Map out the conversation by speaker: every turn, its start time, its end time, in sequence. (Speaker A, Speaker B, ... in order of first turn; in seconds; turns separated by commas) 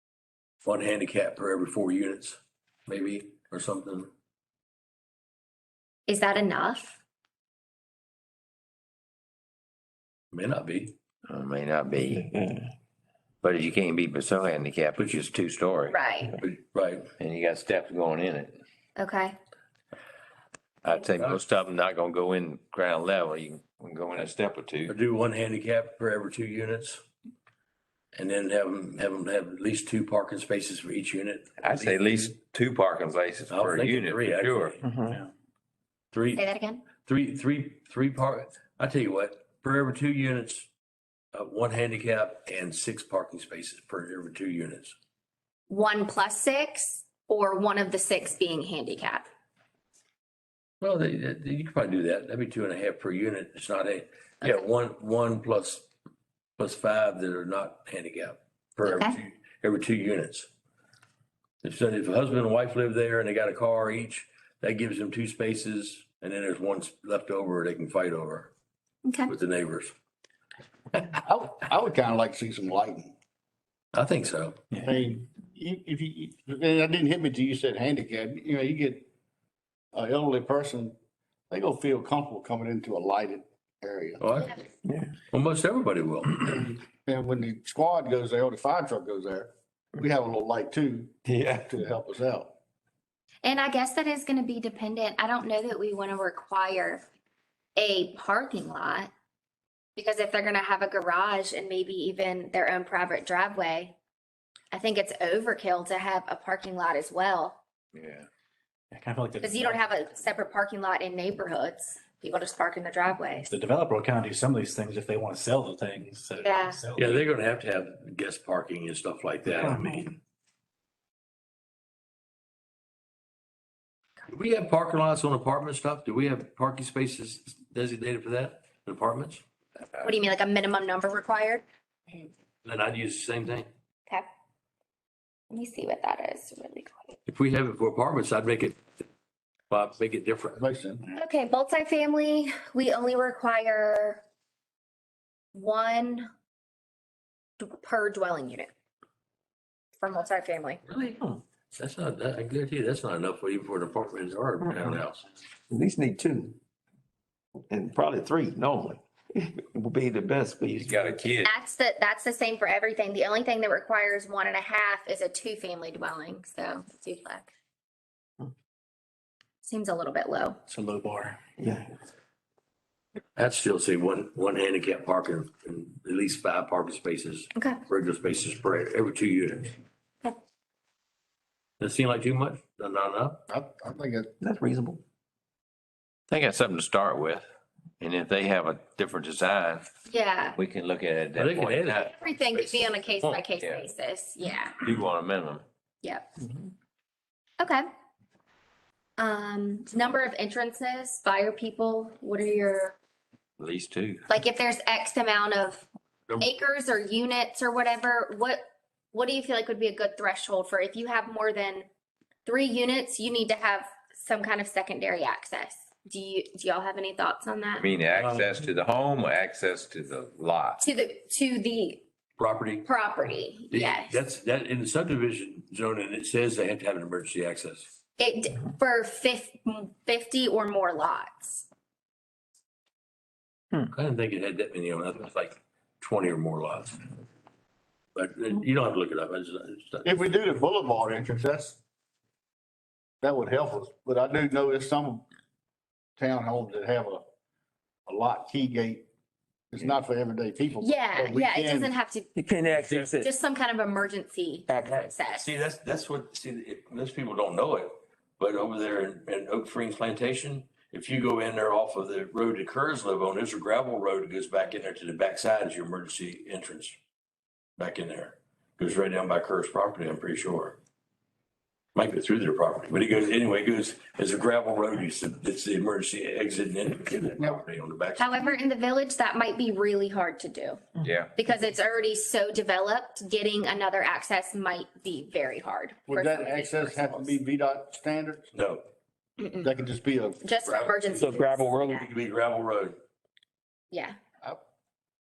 Speaker A: 0.6-4.1, Speaker B: 6.1-7.0, Speaker A: 10.3-10.9, Speaker C: 11.3-12.3, Speaker D: 12.2-12.7, Speaker C: 13.4-16.0, Speaker A: 15.0-15.3, Speaker B: 15.9-16.4, Speaker A: 16.4-17.1, Speaker C: 17.2-18.6, Speaker B: 19.0-19.4, Speaker C: 20.8-24.9, Speaker A: 24.9-27.0, Speaker A: 28.2-32.3, Speaker C: 31.6-34.8, Speaker A: 33.5-34.8, Speaker D: 34.8-35.2, Speaker A: 36.1-36.4, Speaker B: 36.3-36.8, Speaker A: 37.0-40.7, Speaker A: 41.3-44.9, Speaker B: 45.7-49.3, Speaker A: 50.8-55.9, Speaker A: 56.6-60.5, Speaker B: 58.8-59.2, Speaker A: 61.6-68.5, Speaker B: 69.0-69.3, Speaker A: 69.3-69.9, Speaker E: 71.2-73.1, Speaker A: 73.9-74.6, Speaker E: 74.8-79.1, Speaker E: 79.9-80.9, Speaker E: 81.5-84.2, Speaker A: 84.2-84.6, Speaker D: 84.8-85.1, Speaker A: 85.3-86.7, Speaker E: 86.5-92.5, Speaker D: 91.2-91.8, Speaker B: 93.4-97.0, Speaker B: 97.8-99.1, Speaker B: 100.0-104.0, Speaker B: 104.7-107.6, Speaker C: 107.9-108.2, Speaker F: 108.9-109.9, Speaker B: 109.4-113.5, Speaker F: 113.5-117.2, Speaker B: 116.4-116.8, Speaker A: 117.0-120.2, Speaker F: 119.5-120.0, Speaker A: 124.3-129.4, Speaker B: 130.0-132.3, Speaker A: 132.7-133.7, Speaker B: 135.5-137.2, Speaker A: 137.3-138.8, Speaker A: 139.7-140.6, Speaker E: 140.6-141.2, Speaker B: 141.2-144.2, Speaker B: 145.5-146.3, Speaker B: 147.6-148.7, Speaker B: 150.0-150.8, Speaker A: 150.9-155.2, Speaker D: 155.7-156.6, Speaker D: 157.6-161.2, Speaker C: 160.8-161.5, Speaker B: 161.4-167.5, Speaker B: 169.6-170.6, Speaker F: 170.7-171.4, Speaker D: 171.6-171.9, Speaker A: 173.3-179.7, Speaker A: 181.8-183.4, Speaker E: 183.5-184.3, Speaker D: 184.4-185.0, Speaker C: 186.3-187.4, Speaker C: 188.0-189.8, Speaker B: 190.1-190.6, Speaker C: 190.6-192.1, Speaker A: 191.3-193.4, Speaker B: 192.0-194.8, Speaker C: 194.8-195.6, Speaker B: 197.6-197.8, Speaker B: 199.2-202.9, Speaker C: 203.6-204.2, Speaker B: 204.3-205.9, Speaker B: 206.4-208.6, Speaker B: 209.1-211.9, Speaker B: 212.4-217.9, Speaker C: 217.8-220.8, Speaker A: 218.1-218.6, Speaker B: 220.8-222.0, Speaker A: 222.4-222.9, Speaker B: 222.8-224.2, Speaker A: 223.7-227.9, Speaker B: 228.2-231.7, Speaker A: 233.9-237.0, Speaker A: 238.2-240.2, Speaker E: 240.0-241.8, Speaker E: 243.2-245.2, Speaker E: 246.2-247.2, Speaker E: 248.1-249.0, Speaker E: 249.7-251.9, Speaker B: 250.8-252.3, Speaker D: 252.3-253.3, Speaker A: 252.8-253.1, Speaker B: 253.2-255.5, Speaker D: 254.7-255.1, Speaker A: 254.8-267.0, Speaker A: 267.8-270.8, Speaker A: 271.9-278.6, Speaker E: 277.4-277.6, Speaker B: 278.2-280.8, Speaker C: 281.0-281.3, Speaker B: 281.4-287.4, Speaker E: 286.1-288.5, Speaker A: 288.5-288.8, Speaker B: 289.4-289.7, Speaker E: 289.6-290.4, Speaker B: 290.4-291.9, Speaker A: 290.6-293.0, Speaker D: 291.1-292.1, Speaker B: 293.9-294.2